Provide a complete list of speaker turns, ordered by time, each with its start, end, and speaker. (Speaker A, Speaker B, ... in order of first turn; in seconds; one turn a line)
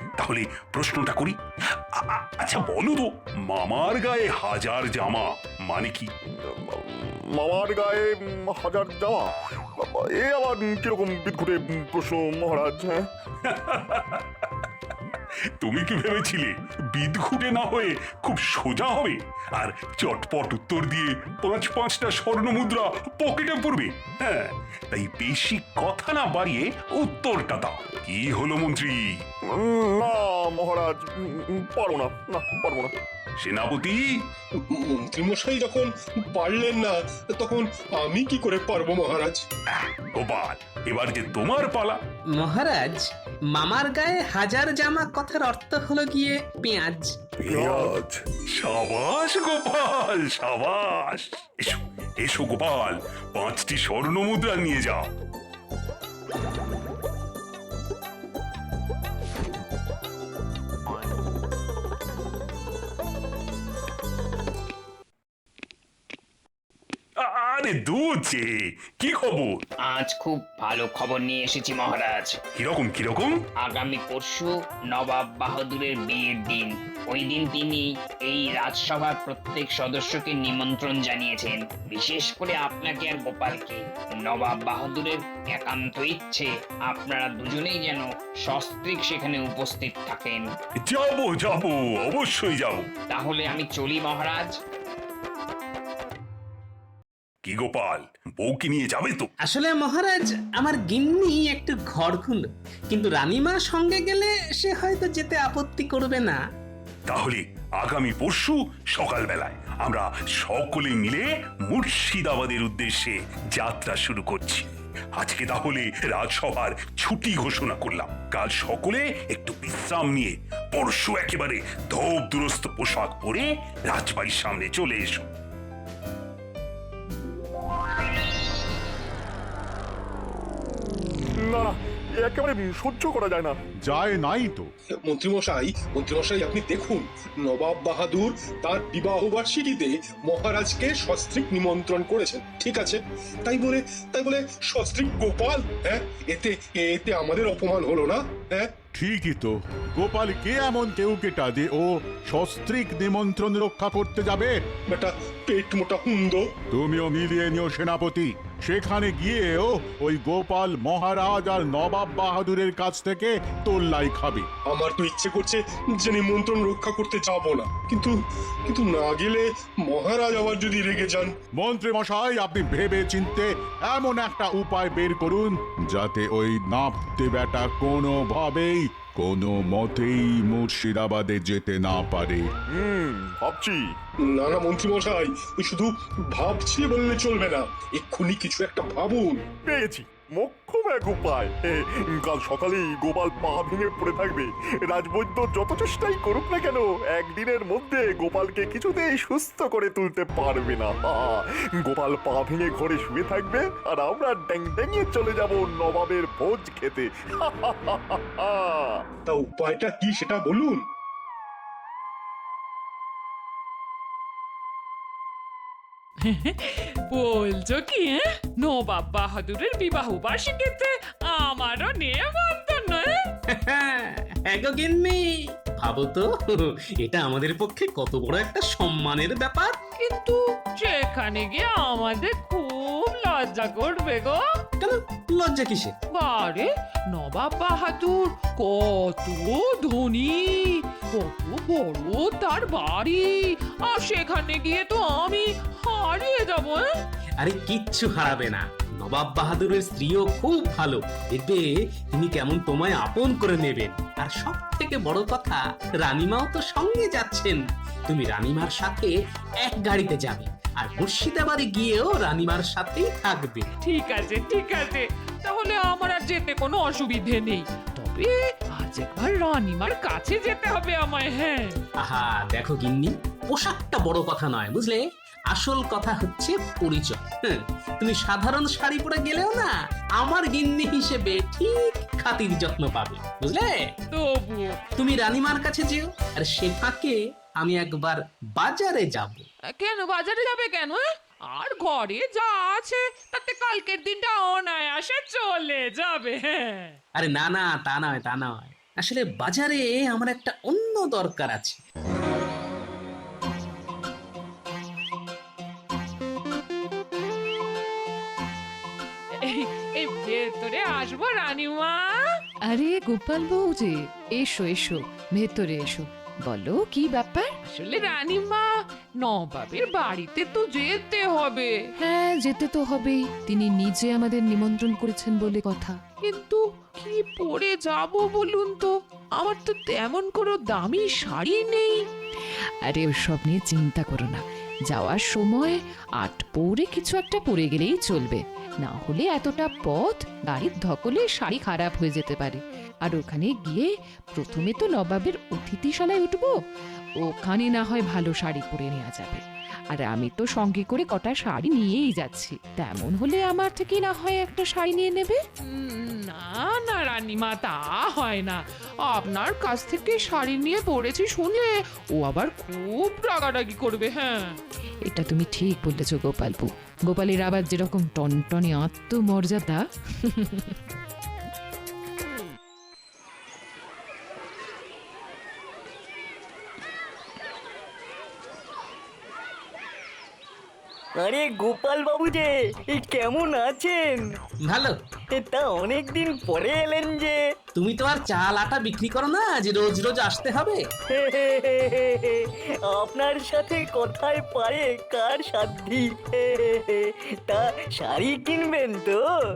Speaker A: 0.2-1.4
Speaker A: 2.0-6.1
Speaker B: 6.4-13.1
Speaker A: 13.4-29.0
Speaker B: 29.5-32.9
Speaker A: 33.4-34.0
Speaker C: 34.7-39.4
Speaker A: 39.7-42.0
Speaker D: 42.3-47.2
Speaker A: 47.5-55.1
Speaker A: 67.2-69.6
Speaker E: 69.8-72.4
Speaker A: 72.6-73.4
Speaker E: 73.6-90.5
Speaker A: 90.8-92.9
Speaker E: 93.1-94.5
Speaker A: 97.4-99.3
Speaker D: 99.4-106.4
Speaker A: 107.1-125.3
Speaker B: 131.4-133.6
Speaker F: 133.8-134.7
Speaker C: 135.1-148.7
Speaker F: 148.9-154.5
Speaker C: 154.9-156.4
Speaker F: 156.7-164.5
Speaker C: 164.7-168.1
Speaker C: 168.7-171.3
Speaker F: 171.6-182.5
Speaker B: 182.7-183.8
Speaker C: 184.3-189.4
Speaker B: 189.7-209.0
Speaker C: 209.3-210.8
Speaker G: 216.3-223.1
Speaker D: 223.5-229.8
Speaker G: 230.0-234.4
Speaker D: 234.8-235.9
Speaker G: 236.2-243.4
Speaker G: 243.9-246.8
Speaker D: 247.4-263.7
Speaker G: 263.9-271.8
Speaker D: 272.0-283.9
Speaker G: 284.1-284.8
Speaker D: 285.0-289.4
Speaker G: 289.8-291.0
Speaker G: 291.6-297.0
Speaker D: 297.2-301.8
Speaker G: 309.5-312.1
Speaker H: 312.7-317.6
Speaker G: 317.6-318.7
Speaker G: 319.2-321.8
Speaker H: 322.0-326.0
Speaker G: 326.3-332.0
Speaker H: 332.9-346.6
Speaker H: 347.2-349.4
Speaker H: 349.9-355.4
Speaker G: 355.8-358.6
Speaker G: 359.1-364.6
Speaker H: 365.1-370.7
Speaker I: 381.2-384.3
Speaker D: 384.6-385.0
Speaker I: 385.3-387.4
Speaker D: 387.8-390.8
Speaker I: 391.1-399.3